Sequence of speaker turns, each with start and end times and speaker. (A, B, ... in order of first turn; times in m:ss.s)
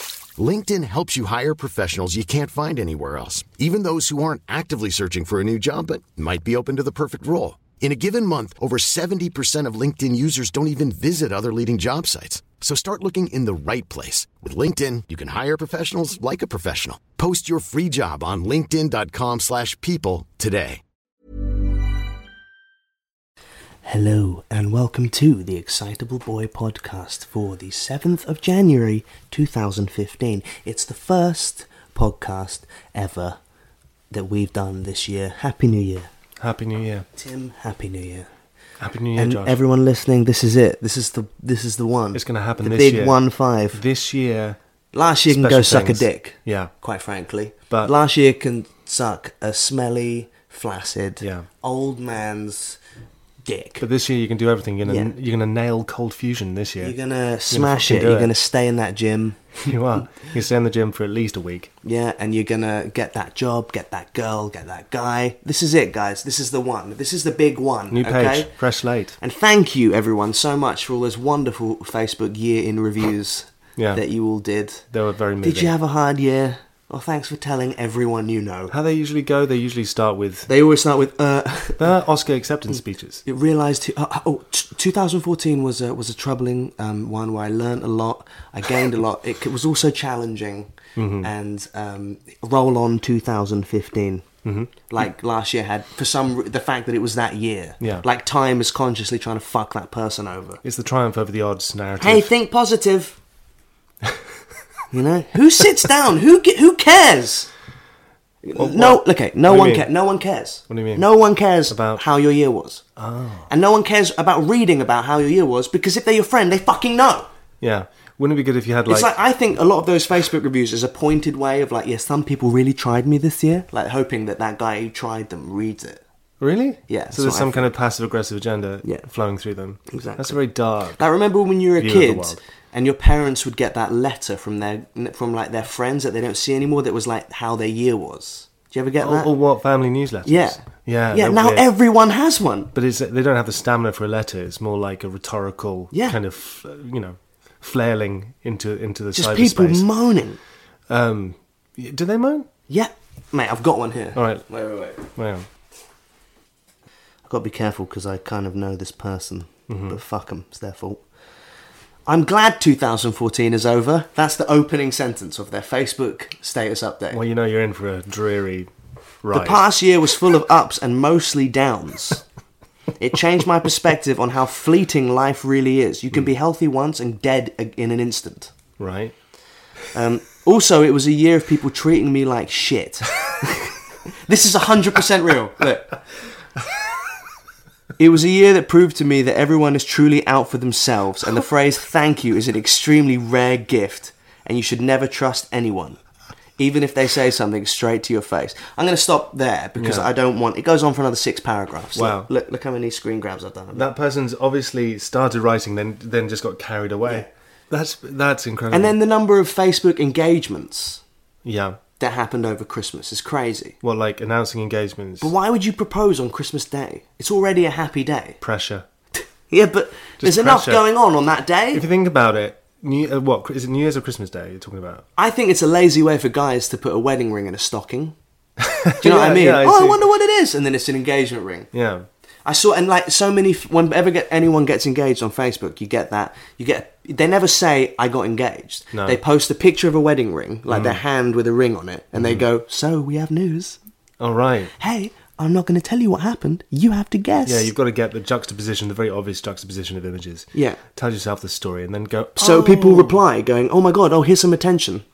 0:00.4-0:20.8 A
0:23.8-0:33.4 B
0:34.1-0:36.1 B
0:36.4-0:37.1 C
0:37.2-0:38.3 B
0:38.8-0:39.6 C
0:39.2-0:43.8 B
0:42.1-0:43.2 C
0:43.7-0:44.6 C
0:44.9-0:52.8 B
0:45.3-0:46.7 C
0:51.2-0:51.4 C
0:53.4-0:53.8 B
0:53.8-0:56.9 C
0:54.8-0:55.1 B
0:56.8-1:00.0 B
0:57.5-0:58.3 C
0:59.6-1:01.7 C
1:01.8-1:08.5 B
1:07.9-1:09.2 C
1:09.2-1:14.8 B
1:13.8-1:14.0 C
1:14.9-1:15.7 C
1:15.4-1:18.7 B
1:18.7-1:20.5 C
1:20.5-1:21.8 B
1:21.8-1:23.2 C
1:23.2-1:34.2 B
1:31.0-1:31.3 C
1:34.4-1:35.0 C
1:34.9-1:40.6 B
1:37.8-1:38.0 C
1:40.6-1:42.3 C
1:42.0-1:43.2 B
1:44.9-1:47.5 B
1:48.4-1:52.8 B
1:48.6-1:49.9 C
1:50.7-1:51.0 C
1:51.7-1:52.0 C
1:53.0-1:53.5 C
1:53.5-1:57.3 B
1:57.6-1:59.1 C
1:58.9-2:06.0 B
2:06.4-2:11.0 C
2:06.9-2:07.7 B
2:09.9-2:10.4 B
2:11.0-2:19.3 B
2:11.8-2:12.4 C
2:19.0-2:21.7 C
2:20.2-2:22.7 B
2:22.7-2:29.8 C
2:29.1-2:30.4 B
2:30.9-2:32.5 C
2:32.7-2:35.0 B
2:34.1-2:34.5 C
2:35.0-2:35.4 C
2:37.2-2:41.0 B
2:39.7-2:40.0 C
2:42.1-2:47.2 B
2:47.1-2:48.7 C
2:49.2-2:49.7 C
2:49.3-2:52.2 B
2:53.0-2:58.5 B
2:58.8-2:59.1 C
2:59.9-3:06.0 B
3:08.0-3:16.0 B
3:16.6-3:23.8 B
3:19.8-3:20.1 C
3:21.9-3:22.3 C
3:23.7-3:28.9 C
3:28.7-3:31.0 B
3:31.4-3:31.8 C
3:32.0-3:33.8 B
3:33.8-3:35.3 C
3:35.2-3:38.4 B
3:38.4-3:38.8 C
3:39.5-3:41.8 B
3:40.2-3:40.8 C
3:41.7-3:45.0 C
3:45.2-3:48.1 B
3:48.6-3:50.0 C
3:49.0-3:51.7 B
3:51.7-3:52.0 C
3:52.4-4:03.8 B
3:58.9-3:59.2 C
4:00.7-4:01.0 C
4:02.2-4:02.4 C
4:04.2-4:04.7 C
4:04.8-4:07.7 B
4:07.4-4:13.2 C
4:10.5-4:10.8 B
4:12.4-4:15.0 B